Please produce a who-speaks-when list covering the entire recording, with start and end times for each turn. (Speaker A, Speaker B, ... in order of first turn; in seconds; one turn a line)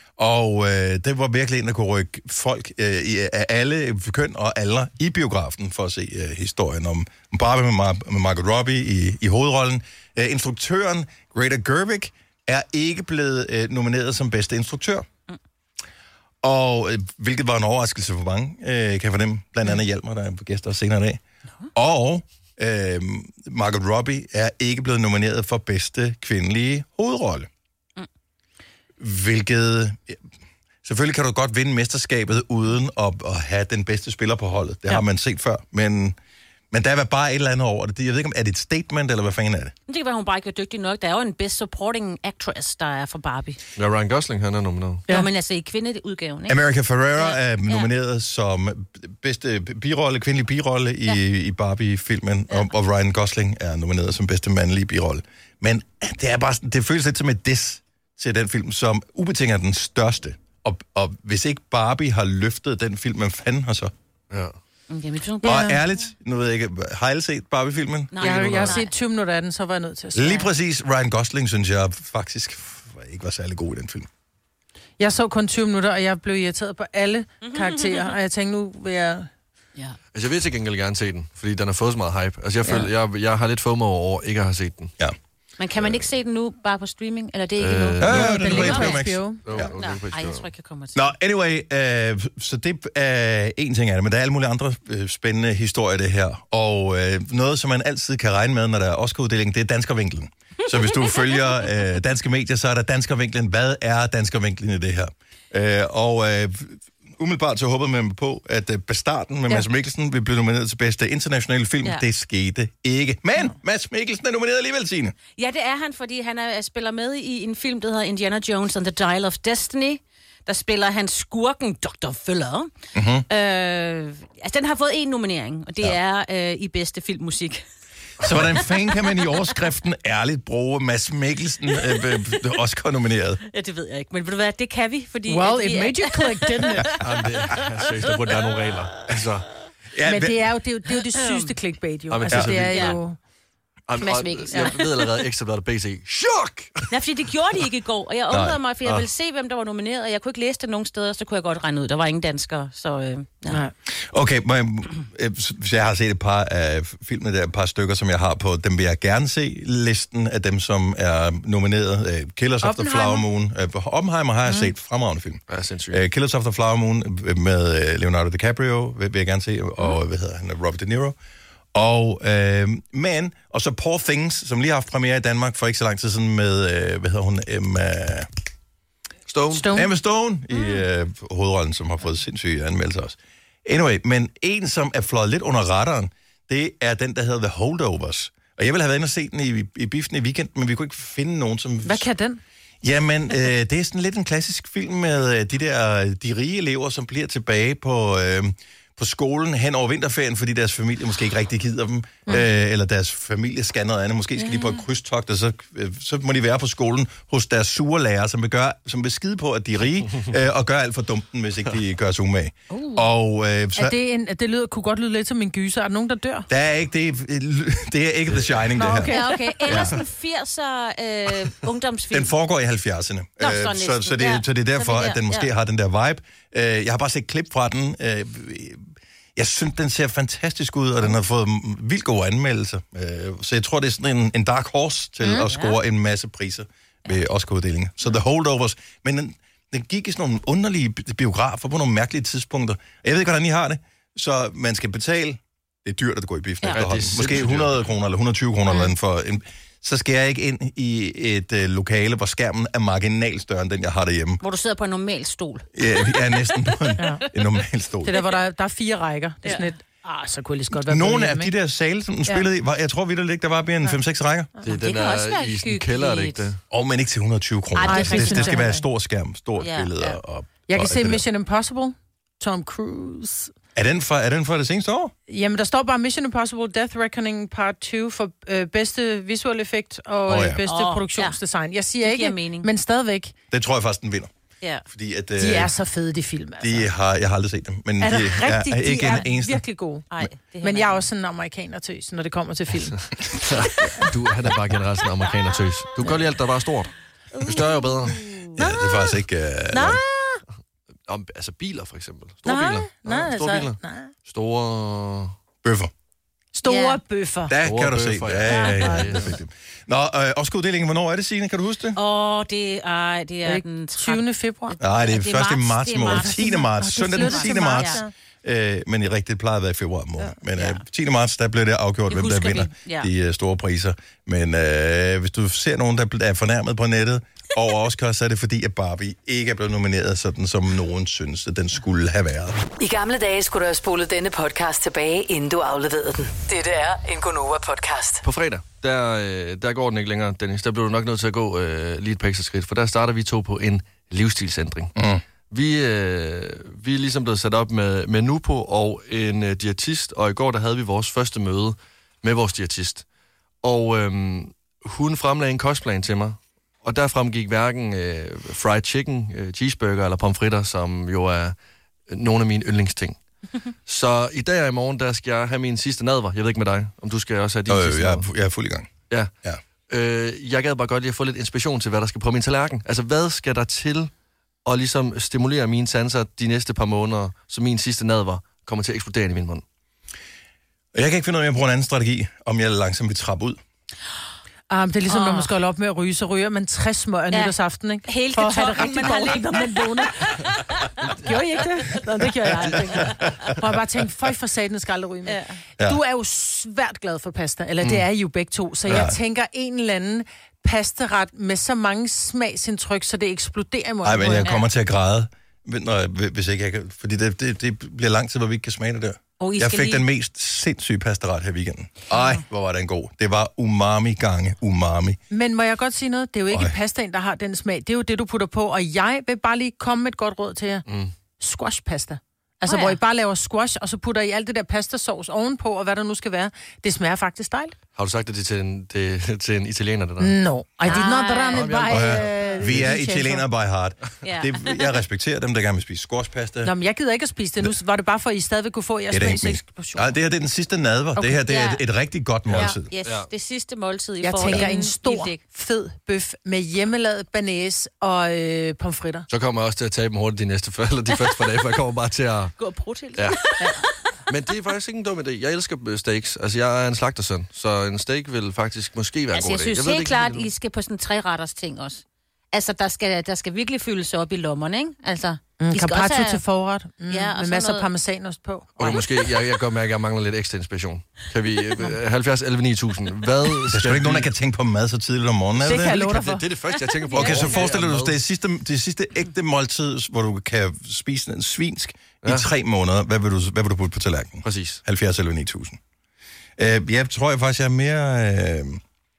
Speaker A: 0.2-15.1
Speaker A: 16.4-21.2
Speaker A: 21.7-27.5
Speaker A: 29.0-30.2
Speaker A: 30.8-36.2
Speaker A: 36.7-39.7
Speaker B: 39.9-43.6
Speaker C: 43.8-45.0
Speaker B: 45.1-46.6
Speaker A: 46.5-63.9
Speaker B: 47.2-47.9
Speaker C: 64.3-64.6
Speaker B: 64.9-66.1
Speaker A: 65.4-68.8
Speaker B: 68.1-68.9
Speaker D: 68.2-70.5
Speaker A: 70.2-74.1
Speaker D: 75.0-79.3
Speaker B: 77.5-78.1
Speaker C: 80.1-84.9
Speaker B: 85.6-91.0
Speaker C: 87.6-88.8
Speaker A: 88.0-89.7
Speaker D: 88.1-89.4
Speaker C: 89.4-90.5
Speaker A: 90.9-115.2
Speaker B: 115.3-122.7
Speaker A: 123.0-123.3
Speaker B: 123.3-127.6
Speaker A: 128.2-133.4
Speaker B: 133.5-138.5
Speaker D: 135.3-136.9
Speaker C: 137.0-139.5
Speaker A: 139.9-140.4
Speaker D: 140.1-143.2
Speaker B: 141.1-141.5
Speaker C: 142.1-143.0
Speaker A: 142.3-142.6
Speaker B: 142.7-143.0
Speaker C: 143.9-146.9
Speaker B: 144.0-145.1
Speaker B: 146.9-153.6
Speaker A: 148.3-149.1
Speaker D: 153.5-153.7
Speaker A: 153.9-171.2
Speaker D: 162.6-163.3
Speaker C: 165.5-166.0
Speaker A: 171.7-178.3
Speaker C: 179.3-179.8
Speaker D: 179.5-179.9
Speaker A: 179.7-192.1
Speaker D: 191.8-192.4
Speaker A: 192.8-214.0
Speaker B: 204.4-204.8
Speaker D: 213.8-216.5
Speaker A: 216.5-219.9
Speaker D: 218.8-219.9
Speaker B: 219.1-222.3
Speaker A: 222.1-254.4
Speaker B: 223.4-225.5
Speaker B: 235.3-235.8
Speaker C: 246.7-247.8
Speaker B: 254.4-257.0
Speaker A: 255.8-258.2
Speaker D: 258.1-261.5
Speaker A: 260.7-264.5
Speaker C: 264.6-266.6
Speaker B: 264.7-266.5
Speaker A: 266.7-271.2
Speaker B: 267.8-268.6
Speaker D: 267.8-268.9
Speaker B: 269.6-270.2
Speaker D: 270.7-273.5
Speaker A: 273.8-275.1
Speaker D: 275.3-283.3
Speaker A: 280.3-280.6
Speaker B: 280.6-281.4
Speaker B: 282.0-282.7
Speaker A: 283.5-284.3
Speaker A: 284.9-285.7
Speaker D: 285.4-286.9
Speaker A: 286.6-289.6
Speaker D: 288.0-290.1
Speaker B: 290.1-291.0
Speaker D: 290.6-293.0
Speaker C: 293.3-296.9
Speaker C: 297.4-298.2
Speaker B: 297.5-298.5
Speaker A: 298.6-300.0
Speaker D: 299.7-300.4
Speaker C: 301.1-305.3
Speaker D: 302.4-304.1
Speaker A: 305.6-305.9
Speaker D: 306.5-307.6
Speaker B: 306.7-307.0
Speaker A: 307.5-312.0
Speaker C: 307.6-309.3
Speaker D: 308.5-309.0
Speaker B: 312.0-318.0
Speaker D: 313.4-314.8
Speaker A: 314.8-332.6
Speaker D: 316.1-318.1
Speaker B: 320.6-320.8
Speaker B: 322.1-323.1
Speaker E: 332.8-338.2
Speaker C: 338.2-344.9
Speaker A: 345.0-345.2
Speaker C: 345.5-353.1
Speaker C: 353.6-361.6
Speaker C: 362.1-363.2
Speaker C: 363.9-368.3
Speaker A: 367.7-368.9
Speaker C: 369.9-374.1
Speaker C: 374.6-379.6
Speaker A: 380.9-383.6
Speaker D: 384.7-390.4
Speaker B: 385.1-385.5
Speaker B: 388.1-390.6
Speaker D: 391.0-404.5
Speaker B: 395.3-395.6
Speaker A: 398.9-399.2
Speaker A: 404.0-415.2
Speaker B: 409.4-410.1
Speaker D: 415.3-420.9
Speaker C: 420.9-421.1
Speaker D: 421.4-427.8
Speaker B: 422.7-423.0
Speaker C: 427.9-430.4
Speaker D: 430.2-433.4
Speaker B: 430.9-431.8
Speaker C: 431.5-432.9
Speaker A: 431.9-436.7
Speaker B: 434.2-434.9
Speaker D: 436.6-440.1
Speaker A: 439.1-442.9
Speaker B: 441.5-441.8
Speaker C: 442.5-443.3
Speaker B: 442.9-445.4
Speaker D: 444.2-449.3
Speaker C: 449.3-452.6
Speaker B: 452.6-453.9
Speaker C: 454.3-460.5
Speaker B: 459.3-466.4
Speaker D: 465.6-469.0
Speaker B: 467.1-467.9
Speaker C: 468.8-474.3
Speaker B: 468.8-469.1
Speaker A: 473.7-476.0
Speaker C: 475.6-478.2
Speaker D: 475.6-476.4
Speaker B: 477.1-477.6
Speaker A: 477.1-485.8
Speaker C: 484.4-484.8
Speaker A: 486.6-488.8